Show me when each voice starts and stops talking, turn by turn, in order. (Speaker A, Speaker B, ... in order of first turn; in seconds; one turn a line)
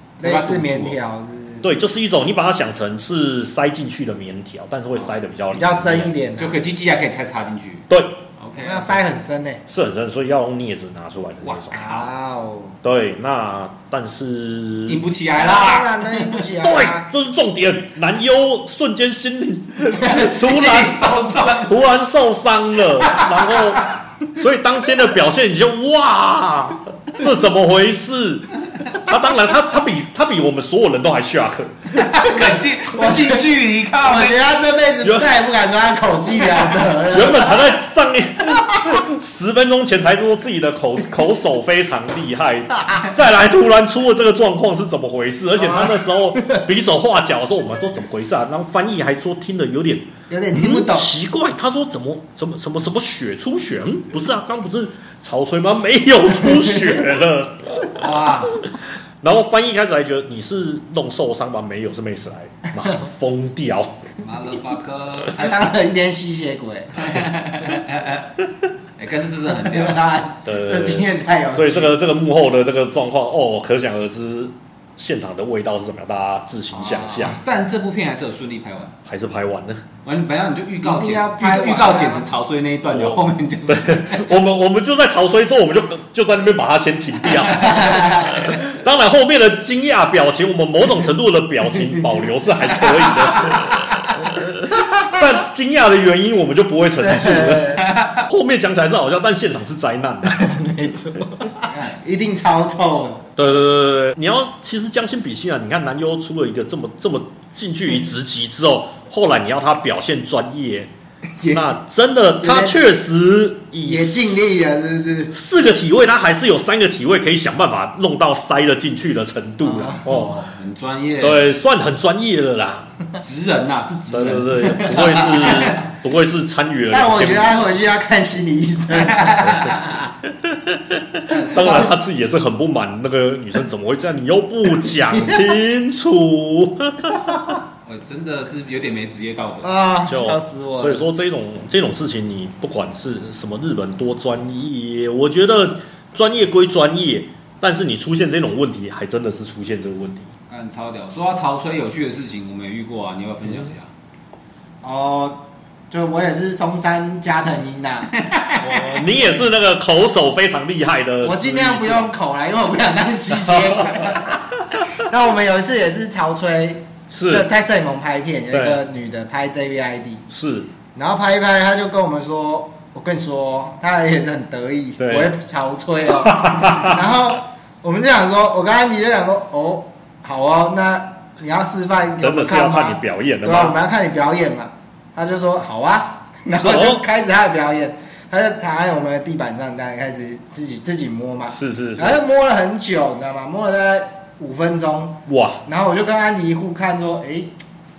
Speaker A: 0.2-1.0
Speaker B: 0.2-1.7
Speaker C: 1.6-6.1
Speaker B: 5.5-6.6
Speaker A: 6.4-9.0
Speaker C: 7.9-8.2
Speaker B: 8.6-9.6
Speaker C: 9.7-12.1
Speaker A: 11.4-11.7
Speaker B: 11.7-12.8
Speaker C: 12.8-15.0
Speaker A: 14.9-16.4
Speaker B: 15.3-17.1
Speaker C: 16.6-21.0
Speaker A: 20.0-21.7
Speaker C: 21.6-32.0
Speaker A: 23.0-23.9
Speaker A: 31.9-34.4
Speaker B: 32.2-33.5
Speaker B: 34.0-37.7
Speaker C: 35.0-35.3
Speaker C: 37.1-58.1
Speaker B: 45.6-46.6
Speaker B: 50.3-51.1
Speaker A: 57.9-58.6
Speaker C: 58.7-64.0
Speaker A: 64.2-65.7
Speaker B: 65.3-67.2
Speaker A: 66.9-68.3
Speaker A: 69.0-70.1
Speaker B: 69.7-71.9
Speaker C: 70.4-77.4
Speaker B: 76.7-77.3
Speaker A: 77.2-79.0
Speaker C: 79.0-79.8
Speaker A: 80.0-84.3
Speaker B: 80.8-82.2
Speaker C: 82.9-100.4
Speaker A: 87.5-88.5
Speaker A: 93.3-94.1
Speaker B: 97.0-97.8
Speaker A: 97.8-98.2
Speaker B: 100.2-103.2
Speaker A: 101.6-102.0
Speaker C: 103.3-110.9
Speaker B: 111.4-111.6
Speaker C: 111.5-114.4
Speaker B: 112.4-112.9
Speaker B: 113.8-115.3
Speaker C: 115.3-120.3
Speaker B: 119.6-120.0
Speaker A: 120.0-121.4
Speaker C: 121.2-122.9
Speaker A: 123.2-125.9
Speaker C: 124.1-127.7
Speaker B: 126.9-129.6
Speaker A: 128.9-130.1
Speaker C: 129.4-137.6
Speaker A: 131.3-131.9
Speaker B: 131.3-131.9
Speaker B: 135.1-135.5
Speaker A: 137.8-139.8
Speaker B: 139.6-141.1
Speaker C: 140.0-150.3
Speaker A: 150.5-153.9
Speaker B: 154.8-158.1
Speaker A: 158.1-159.0
Speaker C: 158.6-162.1
Speaker B: 161.2-170.2
Speaker C: 163.5-164.0
Speaker C: 167.1-167.5
Speaker C: 168.5-168.8
Speaker C: 170.3-170.7
Speaker B: 170.9-197.5
Speaker C: 175.0-175.3
Speaker C: 176.2-177.0
Speaker C: 182.2-183.8
Speaker C: 186.6-187.0
Speaker C: 191.5-192.2
Speaker C: 195.3-195.6